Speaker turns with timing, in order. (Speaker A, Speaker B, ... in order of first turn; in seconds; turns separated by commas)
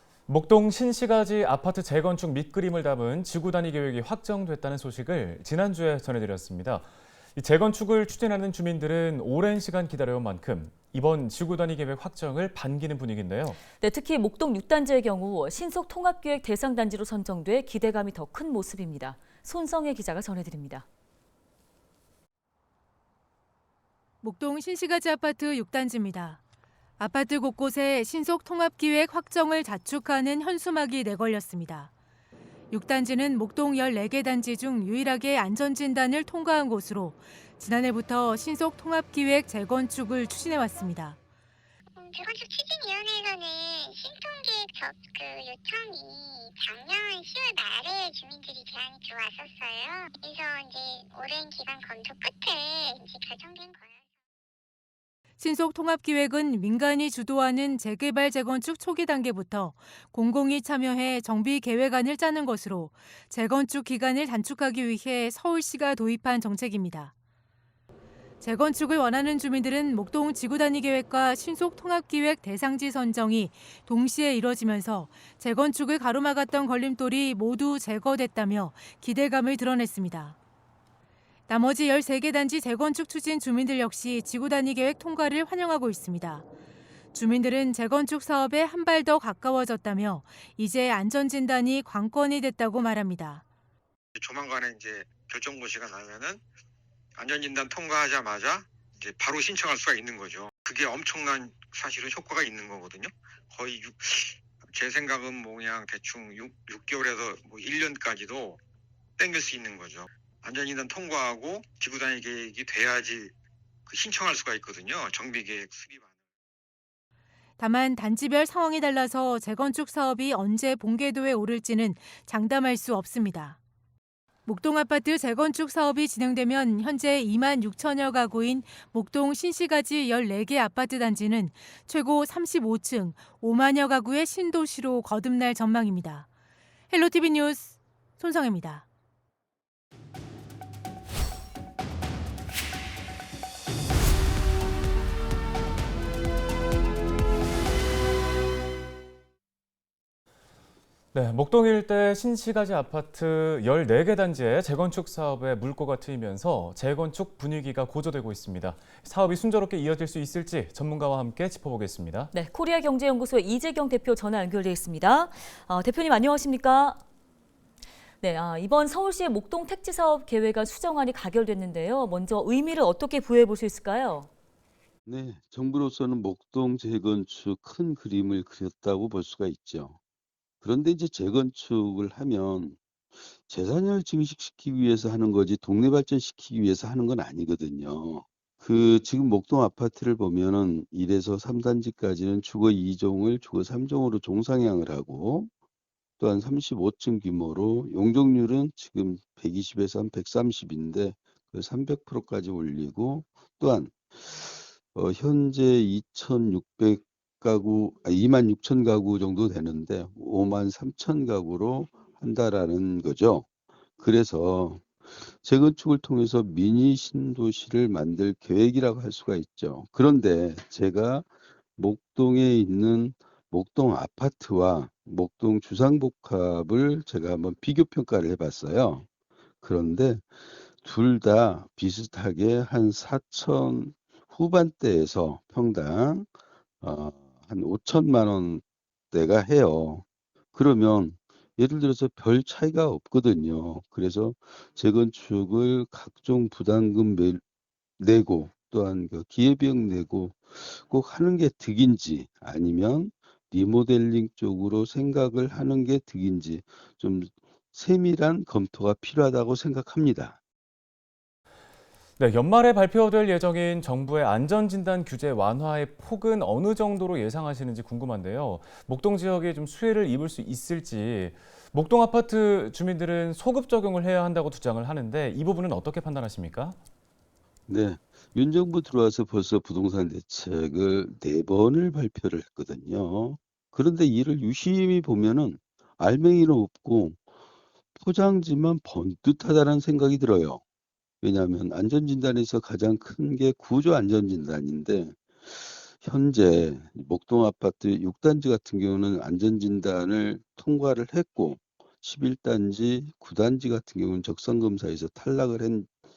Speaker A: 0.3-13.6, Speaker B: 13.8-20.9, Speaker C: 24.2-26.4, Speaker C: 27.0-31.9, Speaker C: 32.7-41.2, Speaker D: 42.0-54.0, Speaker C: 55.4-67.1, Speaker C: 68.4-80.3, Speaker C: 81.5-86.4, Speaker C: 87.1-93.4, Speaker E: 94.2-96.4, Speaker E: 97.2-108.6, Speaker E: 109.2-113.3, Speaker E: 113.9-116.1, Speaker C: 117.6-123.6, Speaker C: 124.5-136.2, Speaker C: 136.9-138.8, Speaker A: 151.1-162.3, Speaker B: 162.3-167.0, Speaker B: 168.2-174.3, Speaker F: 175.1-180.0, Speaker F: 180.6-195.5, Speaker F: 196.2-213.4, Speaker F: 214.0-229.0, Speaker F: 229.6-230.3, Speaker F: 230.8-236.3, Speaker F: 236.8-247.4, Speaker F: 248.0-260.4, Speaker A: 262.2-276.8, Speaker F: 277.7-287.2, Speaker F: 288.0-290.6, Speaker F: 291.2-305.9